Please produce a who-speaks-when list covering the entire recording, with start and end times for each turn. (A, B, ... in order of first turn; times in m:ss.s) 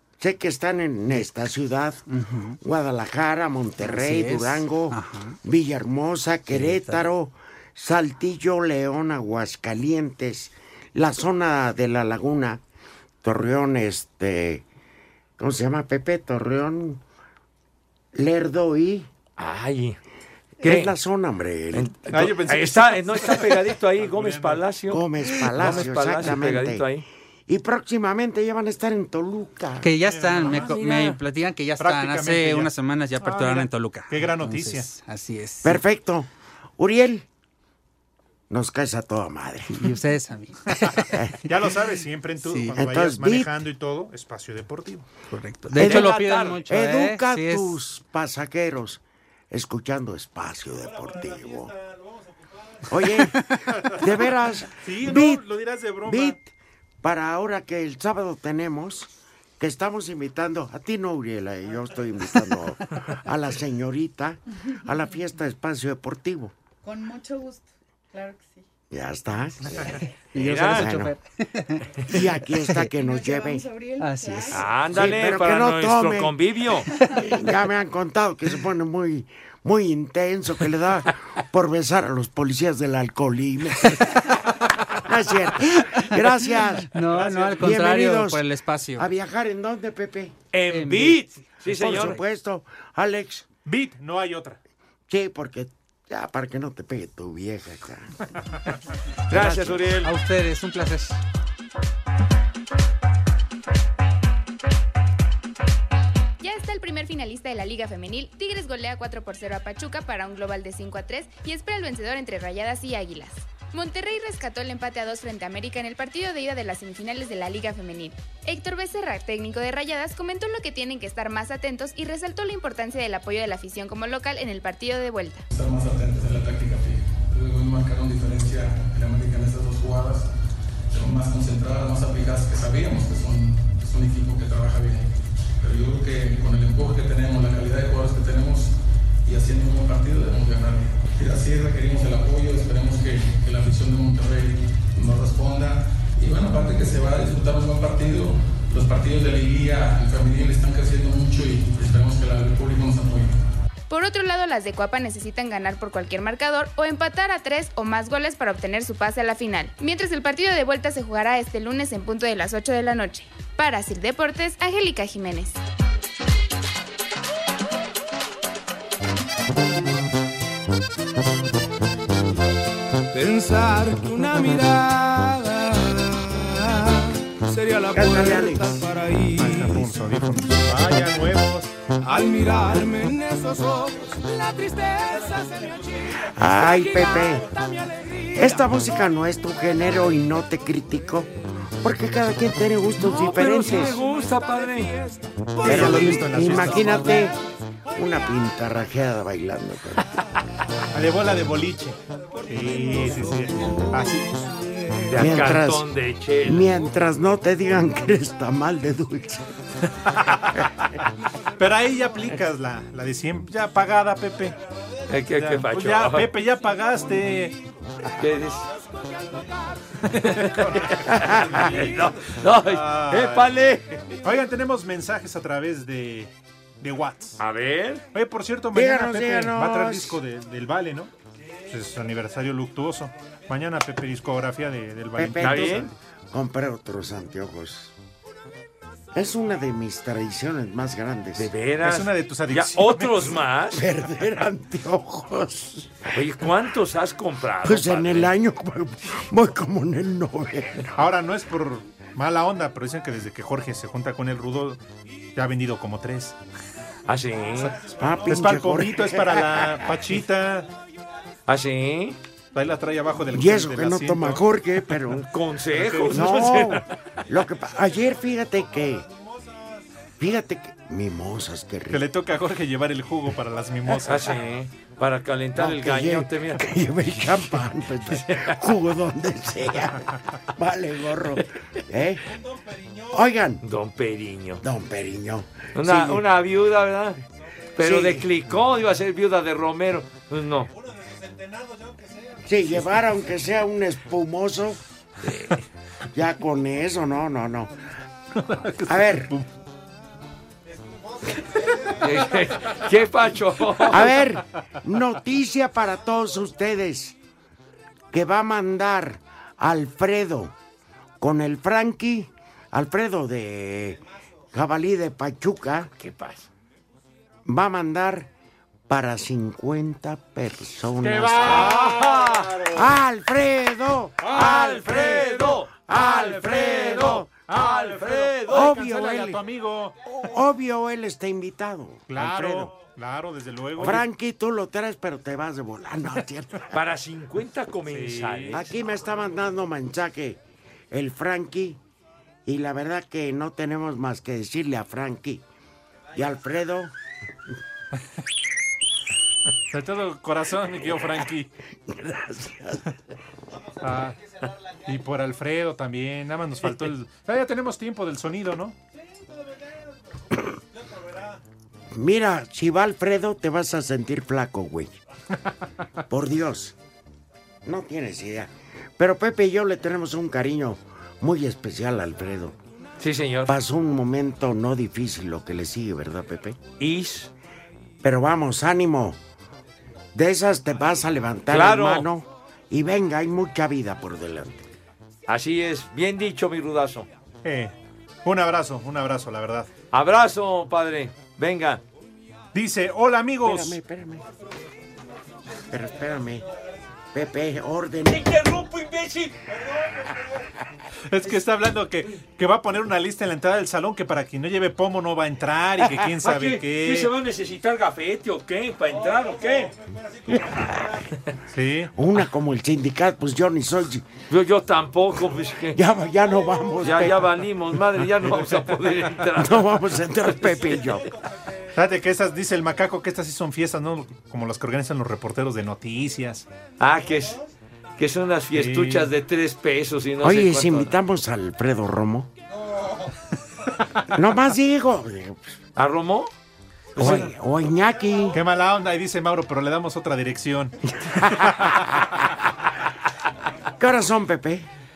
0:00.2-0:02.0 A
0:02.1-0:02.6 B
0:02.6-0:12.6 A
0:03.8-0:05.4 B
0:06.5-0:07.1 B
0:13.2-0:14.6 A
0:15.4-0:17.0 A
0:18.1-0:19.1 A
0:19.4-0:20.0 C
0:20.6-0:21.9 A
0:20.6-0:20.9 C
0:21.7-0:27.0 C
0:22.1-0:24.6 D
0:24.9-0:26.9 A
0:25.6-0:25.8 D
0:27.5-0:29.9 A
0:29.8-0:35.8 B
0:30.0-0:30.8 D
0:30.7-0:31.2 C
0:31.8-0:34.9 D
0:35.6-0:37.2 A
0:38.5-0:39.9 A
0:39.7-0:41.2 B
0:41.1-0:41.4 A
0:41.4-0:45.0 D
0:42.4-0:42.7 B
0:42.7-0:43.5 A
0:45.3-0:47.8 B
0:45.7-0:51.7 A
0:45.8-0:46.6 C
0:52.9-0:55.4 A
0:53.7-0:54.0 D
0:54.8-0:56.4 D
0:56.0-0:56.5 A
0:57.0-1:06.5 A
1:06.8-1:08.6 E
1:08.9-1:11.1 A
1:10.3-1:12.9 B
1:10.4-1:10.9 C
1:12.1-1:13.6 A
1:12.9-1:14.6 E
1:14.0-1:14.6 B
1:14.5-1:16.9 C
1:14.9-1:16.4 A
1:17.1-1:24.3 A
1:25.0-1:27.0 A
1:26.0-1:29.0 B
1:27.0-1:27.8 D
1:27.5-1:28.4 A
1:29.0-1:30.4 A
1:30.5-1:32.2 C
1:30.7-1:31.3 B
1:31.6-1:33.5 A
1:33.6-1:34.6 D
1:35.1-1:38.1 A
1:39.3-1:39.8 A
1:39.3-1:40.1 C
1:40.0-1:41.2 B
1:46.4-2:05.4 F
2:05.5-2:10.3 G
2:10.9-2:15.1 G
2:15.6-2:33.3 G
2:33.9-2:45.6 F
2:53.1-2:59.9 H
2:57.9-2:58.8 A
2:59.4-3:01.7 D
3:02.0-3:08.9 H
3:06.2-3:07.5 A
3:08.3-3:14.0 A
3:13.0-3:14.9 C
3:13.2-3:16.7 H
3:15.6-3:17.2 D
3:15.6-3:17.4 A
3:17.9-3:20.0 A
3:20.9-3:22.0 D
3:22.5-3:24.3 D
3:23.5-3:25.4 H
3:25.1-3:26.8 C
3:25.1-3:25.9 A
3:26.4-3:29.4 A
3:30.2-3:30.6 D
3:31.6-3:34.6 D
3:35.1-3:36.3 C
3:35.3-3:37.6 D
3:38.2-3:38.7 C
3:40.1-3:43.5 D
3:40.1-3:43.8 C
3:41.1-3:41.7 A
3:44.1-3:47.4 D
3:47.4-3:48.0 C
3:48.1-3:51.1 D
3:48.7-3:50.2 A
3:51.7-3:55.9 D
3:55.2-3:57.9 A
3:55.4-3:55.9 C
3:59.1-4:01.5 A
4:01.4-4:03.8 C
4:01.8-4:03.4 D
4:03.7-4:06.0 A
4:06.1-4:08.3 C
4:07.6-4:10.9 A
4:10.9-4:14.8 D
4:15.3-4:16.4 D
4:17.1-4:17.8 C
4:17.6-4:20.7 D
4:18.0-4:19.9 A
4:21.5-4:22.2 C
4:22.5-4:24.4 D
4:23.3-4:25.3 A
4:25.2-4:26.8 C
4:25.7-4:26.8 D
4:26.1-4:29.1 A
4:30.2-4:32.0 A
4:31.9-4:34.3 D
4:34.0-4:36.6 C
4:35.6-4:42.2 A
4:38.1-4:38.6 C
4:43.1-4:43.6 A
4:43.6-4:44.6 C
4:44.6-4:46.2 A
4:45.8-4:47.2 C
4:47.8-4:50.7 C
4:47.8-4:48.3 A
4:52.4-4:54.8 A
4:55.2-4:55.6 C
4:56.1-4:57.7 A
4:58.3-4:59.5 D
4:58.8-4:59.3 A
5:01.9-5:04.1 C
5:03.9-5:07.2 A
5:08.1-5:10.5 A
5:11.2-5:14.0 A
5:14.5-5:15.9 A
5:16.0-5:16.5 C
5:17.4-5:18.3 A
5:18.9-5:21.9 A
5:21.2-5:22.6 D
5:21.2-5:22.7 C
5:22.7-5:27.3 A
5:24.2-5:28.8 C
5:27.5-5:30.0 D
5:28.5-5:29.4 A
5:30.2-5:32.7 A
5:32.1-5:34.0 D
5:33.8-5:36.7 A
5:36.7-5:38.7 C
5:37.9-5:38.6 D
5:38.5-5:41.8 A
5:42.4-5:45.4 A
5:46.1-5:46.9 A
5:49.7-5:51.5 D
5:51.9-5:52.8 A
5:53.8-5:54.2 D
5:54.8-5:58.8 D
6:01.9-6:05.0 A
6:06.1-6:06.8 A
6:07.6-6:12.6 A
6:13.0-6:13.5 C
6:13.4-6:16.6 A
6:16.8-6:17.3 C
6:18.0-6:19.2 A
6:20.1-6:24.6 A
6:21.5-6:22.1 C
6:25.3-6:27.1 C
6:27.4-6:29.7 D
6:29.9-6:31.8 C
6:32.5-6:33.8 D
6:33.4-6:34.2 A
6:35.7-6:36.4 A
6:37.1-6:38.3 A
6:38.0-6:39.3 C
6:41.1-6:47.1 D
6:46.2-6:49.7 C
6:50.3-6:51.1 A
6:51.5-6:51.9 D
6:51.9-6:54.1 A
6:54.3-6:55.8 C
6:55.7-6:57.3 A
6:56.8-6:59.7 C
6:59.4-7:01.0 A
7:00.4-7:00.8 C
7:01.7-7:06.4 D
7:06.8-7:07.4 C
7:08.0-7:10.9 C
7:08.5-7:09.1 D
7:10.2-7:12.3 A
7:14.1-7:15.6 A
7:15.8-7:16.3 C
7:17.0-7:17.3 C
7:17.0-7:18.4 A
7:18.3-7:20.8 D
7:20.9-7:21.9 A
7:21.5-7:21.7 D
7:23.8-7:24.7 A